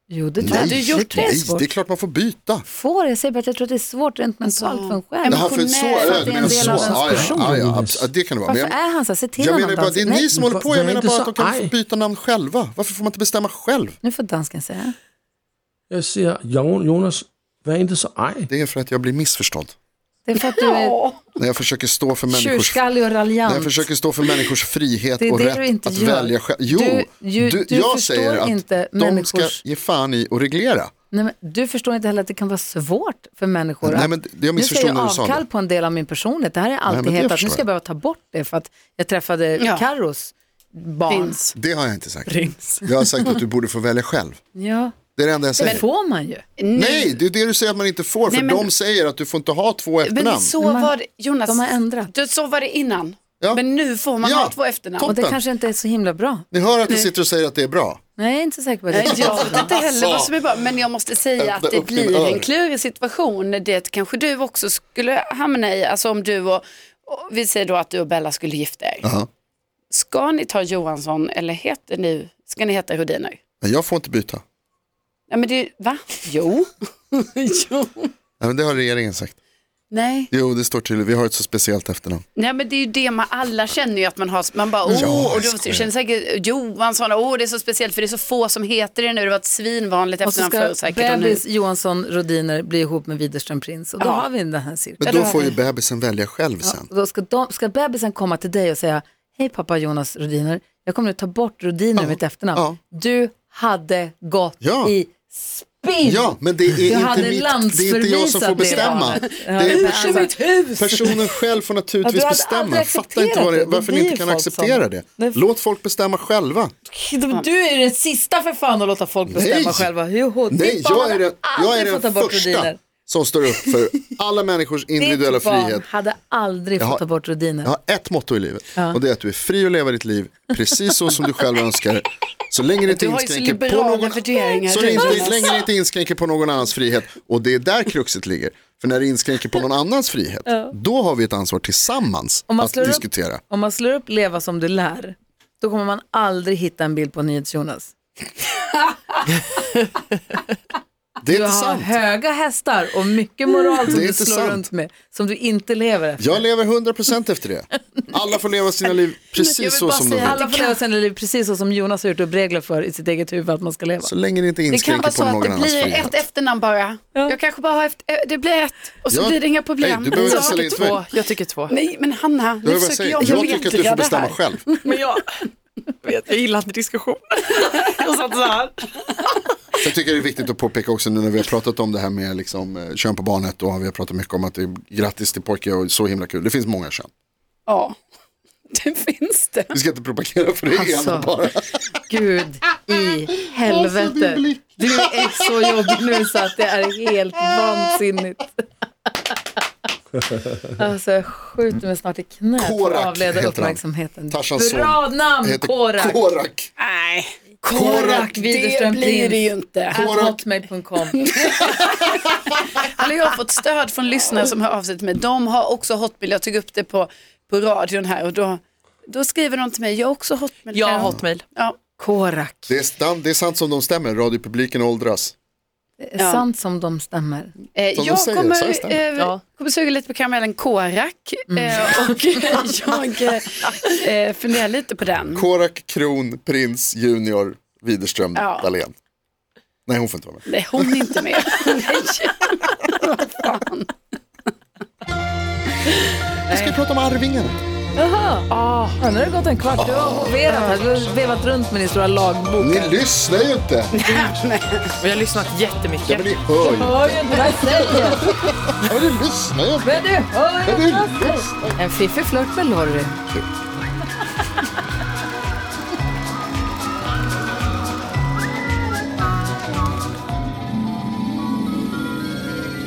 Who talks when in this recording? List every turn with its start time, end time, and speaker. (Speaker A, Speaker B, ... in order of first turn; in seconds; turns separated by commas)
Speaker A: 0.1-1.7, Speaker B: 0.4-2.6, Speaker C: 0.4-1.3, Speaker A: 2.6-7.4, Speaker C: 4.5-6.5, Speaker B: 5.3-8.8, Speaker D: 6.4-8.1, Speaker A: 8.4-10.7, Speaker B: 9.4-14.0, Speaker D: 10.7-11.7, Speaker A: 14.0-14.9, Speaker D: 15.9-18.5, Speaker B: 18.5-19.7, Speaker A: 20.2-21.0, Speaker C: 20.4-21.2, Speaker B: 21.4-22.8, Speaker A: 22.3-23.9, Speaker B: 23.4-30.9, Speaker A: 25.2-29.6, Speaker A: 31.1-41.4, Speaker B: 33.8-35.4, Speaker B: 36.9-37.6, Speaker C: 39.6-39.9, Speaker C: 41.1-41.5, Speaker B: 41.5-44.4, Speaker C: 42.3-42.9, Speaker A: 44.5-44.9, Speaker B: 45.1-45.8, Speaker A: 45.6-46.4, Speaker C: 46.6-47.2, Speaker B: 46.7-50.5, Speaker C: 48.3-48.7, Speaker C: 50.0-55.1, Speaker A: 50.6-50.9, Speaker A: 51.4-52.1, Speaker B: 54.2-55.4, Speaker A: 55.0-56.5, Speaker B: 56.5-58.0, Speaker A: 58.2-59.7, Speaker C: 58.9-69.0, Speaker B: 59.1-60.4, Speaker B: 61.4-62.5, Speaker B: 69.0-69.3, Speaker C: 69.9-73.4, Speaker B: 73.6-74.4, Speaker C: 75.3-78.1, Speaker B: 78.4-79.3, Speaker C: 79.9-80.3, Speaker B: 80.3-82.2, Speaker C: 82.3-91.4, Speaker B: 84.9-85.9, Speaker A: 90.2-95.4, Speaker C: 94.0-94.2, Speaker B: 95.0-96.9, Speaker C: 95.0-95.5, Speaker A: 96.6-110.3, Speaker B: 102.0-102.8, Speaker B: 104.6-104.9, Speaker B: 106.0-116.7, Speaker C: 108.6-111.2, Speaker A: 112.0-115.4, Speaker A: 116.9-122.8, Speaker B: 119.3-119.9, Speaker B: 120.5-125.8, Speaker A: 125.0-127.7, Speaker B: 127.6-143.4, Speaker A: 128.7-129.0, Speaker C: 132.8-135.6, Speaker A: 142.5-147.9, Speaker B: 151.2-152.0, Speaker A: 151.3-156.4, Speaker B: 153.8-154.7, Speaker B: 156.2-160.4, Speaker C: 159.3-160.8, Speaker A: 160.1-164.1, Speaker B: 164.0-166.2, Speaker C: 164.7-170.8, Speaker B: 169.1-171.0, Speaker E: 170.2-171.7, Speaker C: 171.7-175.0, Speaker B: 172.6-174.7, Speaker E: 174.8-175.2, Speaker E: 176.0-179.0, Speaker B: 179.8-187.1, Speaker C: 187.7-187.9, Speaker C: 188.7-189.7, Speaker B: 189.7-191.8, Speaker A: 190.7-191.3, Speaker A: 192.1-198.5, Speaker B: 193.4-196.0, Speaker A: 200.8-206.2, Speaker B: 202.6-206.7, Speaker C: 206.8-210.3, Speaker A: 207.6-211.2, Speaker B: 207.7-208.3, Speaker B: 209.9-210.4, Speaker C: 211.2-221.8, Speaker E: 220.7-221.4, Speaker A: 222.0-222.7, Speaker B: 222.7-225.3, Speaker A: 226.0-227.5, Speaker C: 226.2-226.4, Speaker C: 227.7-235.5, Speaker B: 227.9-229.0, Speaker A: 231.5-231.8, Speaker B: 235.3-238.9, Speaker C: 238.3-238.7, Speaker B: 239.9-240.9, Speaker C: 240.5-243.9, Speaker B: 246.5-247.6, Speaker A: 247.9-252.9, Speaker E: 248.5-249.0, Speaker B: 249.8-250.4, Speaker B: 252.6-253.9, Speaker C: 253.9-254.9, Speaker E: 255.0-256.3, Speaker B: 256.0-260.1, Speaker A: 256.6-258.3, Speaker A: 259.8-263.2, Speaker B: 260.6-261.7